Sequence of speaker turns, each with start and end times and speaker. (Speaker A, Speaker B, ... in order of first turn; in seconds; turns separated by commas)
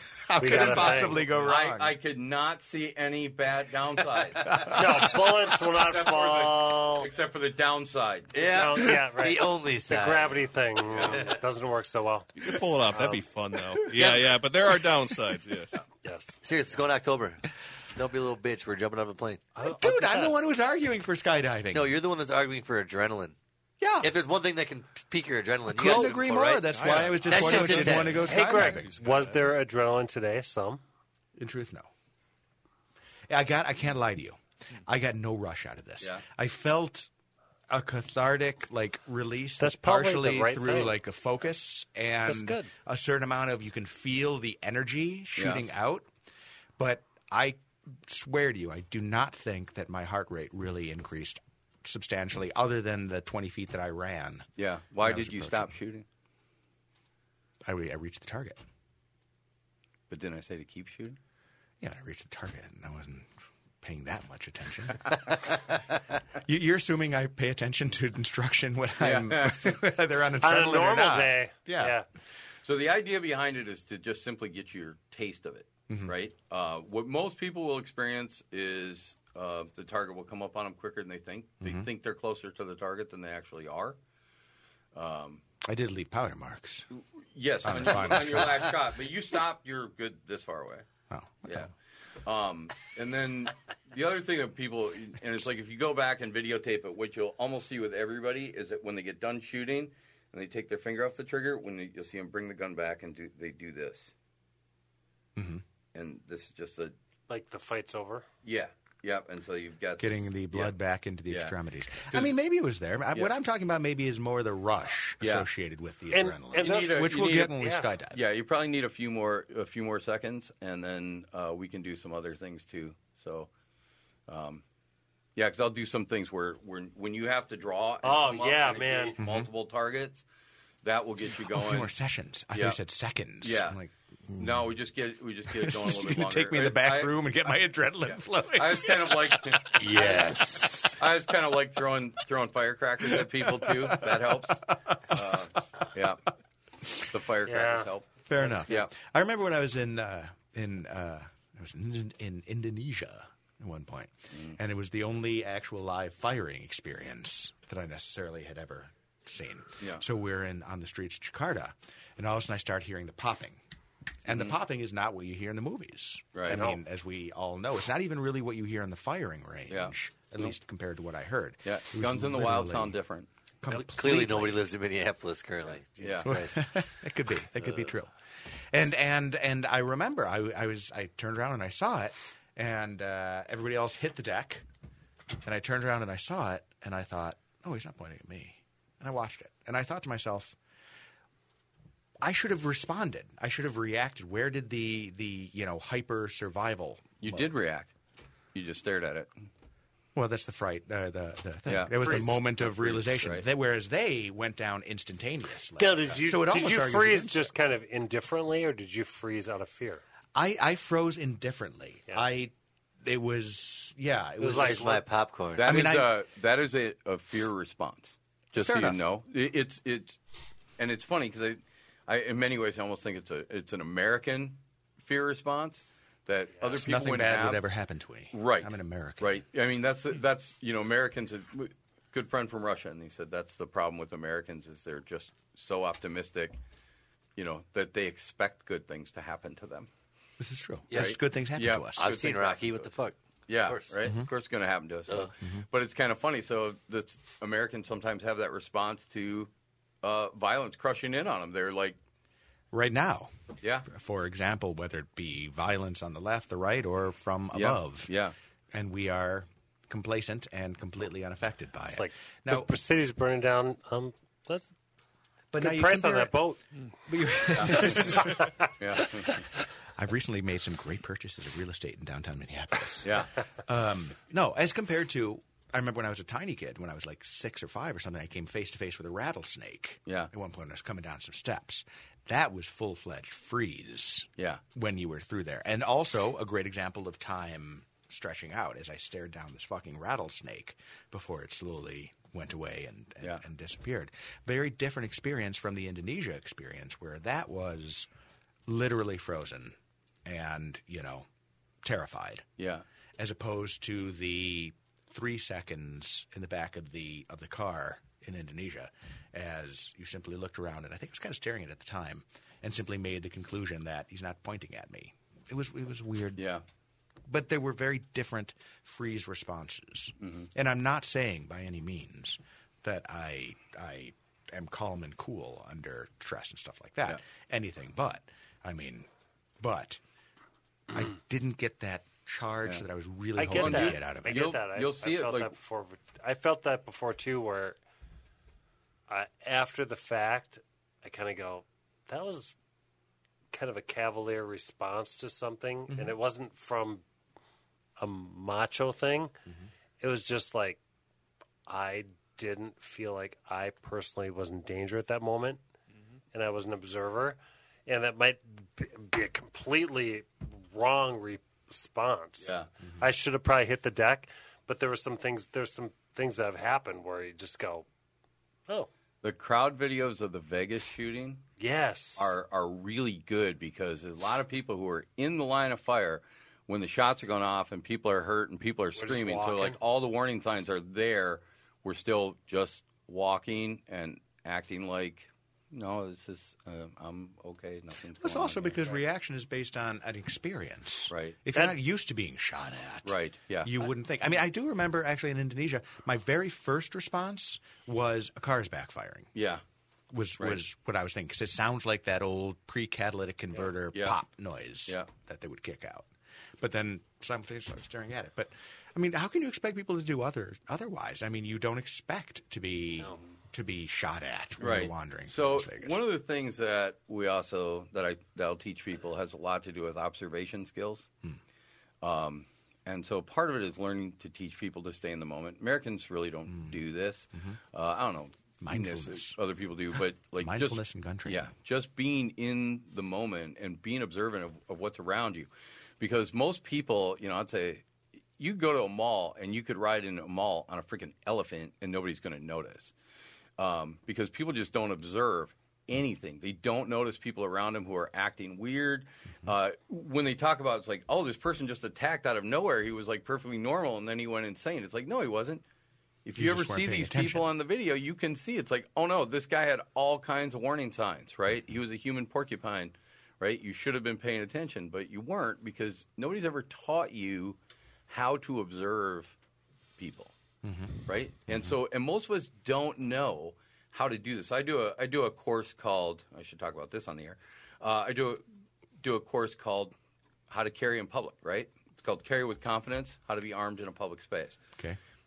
Speaker A: 0.2-1.9, Speaker B: 0.4-1.2, Speaker C: 0.8-4.5, Speaker A: 4.4-5.4, Speaker B: 4.7-7.1, Speaker C: 5.7-8.3, Speaker D: 8.3-10.5, Speaker B: 8.4-12.3, Speaker C: 10.9-11.2, Speaker E: 12.4-15.8, Speaker D: 12.9-13.2, Speaker D: 13.9-14.3, Speaker B: 16.0-16.4, Speaker D: 16.4-19.4, Speaker B: 19.6-20.4, Speaker A: 19.6-21.9, Speaker D: 21.7-23.4, Speaker A: 23.8-24.1, Speaker D: 24.0-28.2, Speaker A: 25.7-29.0, Speaker E: 26.7-29.5, Speaker B: 28.1-30.8, Speaker A: 31.4-31.9, Speaker A: 33.3-37.1, Speaker A: 37.7-46.1, Speaker B: 39.6-41.0, Speaker B: 42.2-42.7, Speaker C: 45.4-45.6, Speaker A: 46.8-54.5, Speaker C: 54.6-56.0, Speaker A: 55.0-55.7, Speaker A: 57.6-58.6, Speaker C: 60.1-61.2, Speaker A: 61.8-63.3, Speaker A: 63.8-65.8, Speaker A: 66.3-71.9, Speaker C: 69.0-69.8, Speaker B: 70.4-72.0, Speaker C: 72.6-84.0, Speaker A: 75.9-76.2, Speaker A: 81.6-81.9, Speaker C: 84.9-85.4, Speaker A: 85.6-86.9, Speaker C: 86.9-90.9, Speaker A: 87.6-88.7, Speaker A: 91.1-91.7, Speaker C: 91.4-91.7, Speaker C: 92.2-104.1, Speaker A: 105.3-105.6, Speaker C: 105.9-106.9, Speaker B: 107.3-108.3, Speaker C: 108.4-110.7, Speaker A: 110.0-118.2, Speaker C: 111.3-111.5, Speaker C: 115.2-115.5, Speaker B: 116.1-117.9, Speaker C: 116.5-117.6, Speaker C: 118.1-123.5, Speaker C: 124.3-124.6, Speaker C: 125.3-130.2, Speaker B: 128.0-129.2, Speaker A: 129.2-129.5, Speaker C: 130.8-131.9, Speaker A: 131.3-134.7, Speaker C: 132.5-132.8, Speaker C: 133.4-133.8, Speaker C: 134.3-137.2, Speaker A: 135.5-140.1, Speaker C: 138.0-140.2, Speaker D: 139.8-141.0, Speaker C: 140.9-146.2, Speaker A: 143.1-145.4, Speaker C: 147.0-148.1, Speaker B: 147.4-148.6, Speaker A: 148.3-163.6, Speaker C: 148.7-148.9, Speaker A: 164.2-173.0, Speaker C: 164.3-164.5, Speaker C: 166.3-166.7, Speaker B: 166.5-166.8, Speaker C: 169.7-170.5, Speaker C: 171.6-173.3, Speaker A: 173.6-174.6, Speaker D: 173.7-176.7, Speaker C: 176.0-176.3, Speaker A: 176.2-178.1, Speaker A: 178.7-184.7, Speaker A: 185.4-190.6, Speaker A: 192.2-197.5, Speaker C: 197.2-197.9, Speaker C: 198.5-199.3, Speaker A: 200.1-207.5, Speaker C: 201.7-203.4, Speaker B: 202.0-202.4, Speaker B: 205.8-210.0, Speaker A: 210.3-215.0, Speaker D: 214.4-215.8, Speaker B: 214.4-215.0, Speaker C: 215.5-220.2, Speaker A: 215.6-216.1, Speaker A: 218.5-219.0, Speaker C: 220.8-227.6, Speaker A: 226.7-229.4, Speaker C: 228.3-236.6, Speaker C: 237.4-239.9, Speaker A: 240.4-242.1, Speaker D: 240.9-241.2, Speaker C: 240.9-242.9, Speaker D: 241.9-243.2, Speaker C: 243.5-249.5, Speaker D: 243.7-243.9, Speaker A: 245.4-245.6, Speaker C: 250.0-252.0, Speaker A: 252.7-253.3, Speaker C: 253.6-253.8, Speaker A: 253.8-258.1, Speaker C: 257.5-258.3, Speaker A: 258.7-262.7, Speaker B: 261.9-264.7, Speaker A: 265.5-266.4, Speaker B: 265.5-266.6, Speaker A: 267.1-268.4, Speaker B: 267.3-268.5, Speaker C: 267.5-267.9, Speaker C: 268.8-269.4, Speaker A: 269.9-298.1, Speaker C: 273.0-273.3, Speaker C: 284.4-284.6, Speaker A: 298.7-301.3, Speaker A: 301.8-302.4, Speaker C: 302.6-302.8, Speaker A: 303.2-316.5, Speaker C: 316.4-316.6, Speaker A: 317.3-329.1, Speaker C: 320.2-320.5, Speaker A: 329.6-330.0, Speaker A: 330.9-334.4, Speaker B: 333.4-337.8, Speaker C: 333.5-335.5, Speaker B: 339.1-342.5, Speaker B: 343.5-347.0, Speaker A: 345.9-346.1, Speaker B: 348.0-349.3, Speaker B: 350.0-350.8, Speaker B: 351.7-355.6, Speaker B: 356.3-367.9, Speaker C: 362.4-362.7, Speaker C: 369.2-371.4, Speaker B: 371.6-372.3, Speaker C: 372.2-389.0, Speaker B: 379.0-379.8, Speaker A: 388.2-399.3, Speaker C: 391.1-391.4, Speaker C: 393.0-393.9, Speaker C: 399.3-399.6, Speaker A: 400.1-416.0, Speaker C: 403.9-404.2, Speaker C: 414.6-421.1, Speaker C: 422.0-435.5, Speaker A: 426.5-426.8, Speaker A: 428.6-429.4, Speaker A: 430.4-431.5, Speaker C: 436.0-437.8, Speaker C: 438.4-442.9, Speaker C: 443.6-455.6, Speaker C: 456.2-467.6, Speaker A: 456.4-457.5, Speaker C: 468.1-469.3, Speaker C: 470.0-470.3, Speaker A: 470.6-471.7, Speaker C: 471.1-478.4, Speaker C: 479.0-479.9, Speaker C: 480.5-484.6